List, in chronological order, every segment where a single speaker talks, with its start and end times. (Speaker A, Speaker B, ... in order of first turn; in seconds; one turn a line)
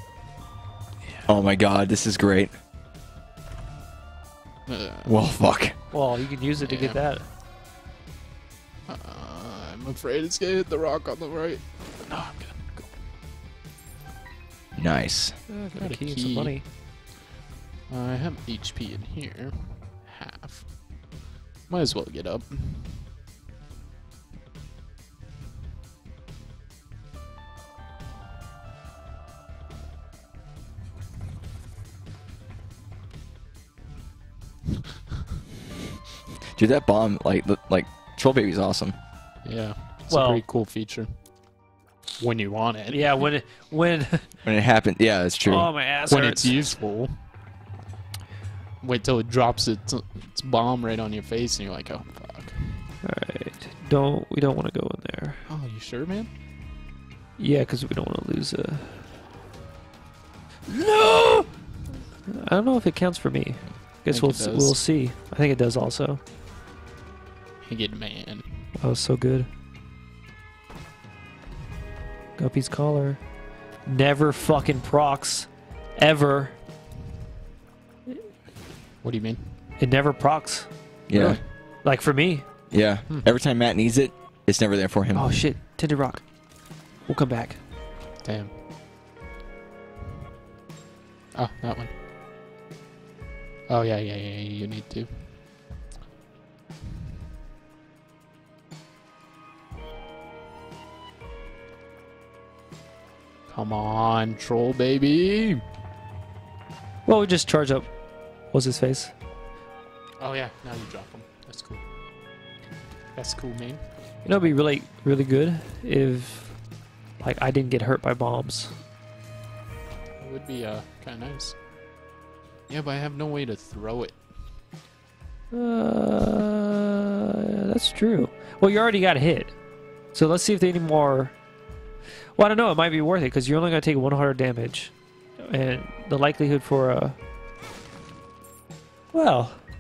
Speaker A: 1.0-1.3
Speaker B: 1.3-2.5
Speaker A: 4.7-5.2
Speaker B: 5.0-5.8
Speaker C: 5.9-7.3
Speaker A: 6.6-7.1
Speaker A: 8.9-13.0
Speaker B: 14.8-15.4
Speaker C: 15.5-16.6
Speaker A: 15.8-16.6
Speaker A: 17.9-21.0
Speaker A: 21.7-23.1
Speaker B: 36.5-39.0
Speaker A: 39.4-41.2
Speaker C: 40.1-40.4
Speaker A: 42.2-43.2
Speaker C: 42.9-44.3
Speaker B: 44.4-45.7
Speaker C: 45.5-46.8
Speaker A: 46.1-47.1
Speaker A: 48.8-52.9
Speaker C: 53.0-55.4
Speaker A: 55.5-56.3
Speaker C: 57.4-59.1
Speaker C: 60.7-61.5
Speaker C: 62.3-66.2
Speaker A: 64.1-64.8
Speaker A: 67.6-68.7
Speaker C: 68.8-69.5
Speaker C: 72.4-73.2
Speaker C: 73.8-76.6
Speaker A: 79.0-79.6
Speaker C: 79.8-80.7
Speaker B: 81.1-81.4
Speaker A: 81.1-81.5
Speaker C: 81.8-82.5
Speaker B: 82.7-85.5
Speaker C: 85.1-86.4
Speaker C: 87.0-87.6
Speaker A: 88.2-88.6
Speaker A: 91.3-91.9
Speaker A: 93.7-95.3
Speaker A: 103.5-105.6
Speaker C: 107.1-107.9
Speaker C: 108.5-109.1
Speaker A: 110.2-111.8
Speaker A: 113.2-113.8
Speaker C: 114.2-116.6
Speaker C: 117.2-118.7
Speaker A: 120.2-121.6
Speaker A: 122.7-124.2
Speaker C: 125.5-129.6
Speaker C: 130.1-131.4
Speaker C: 132.3-137.2
Speaker C: 139.1-139.6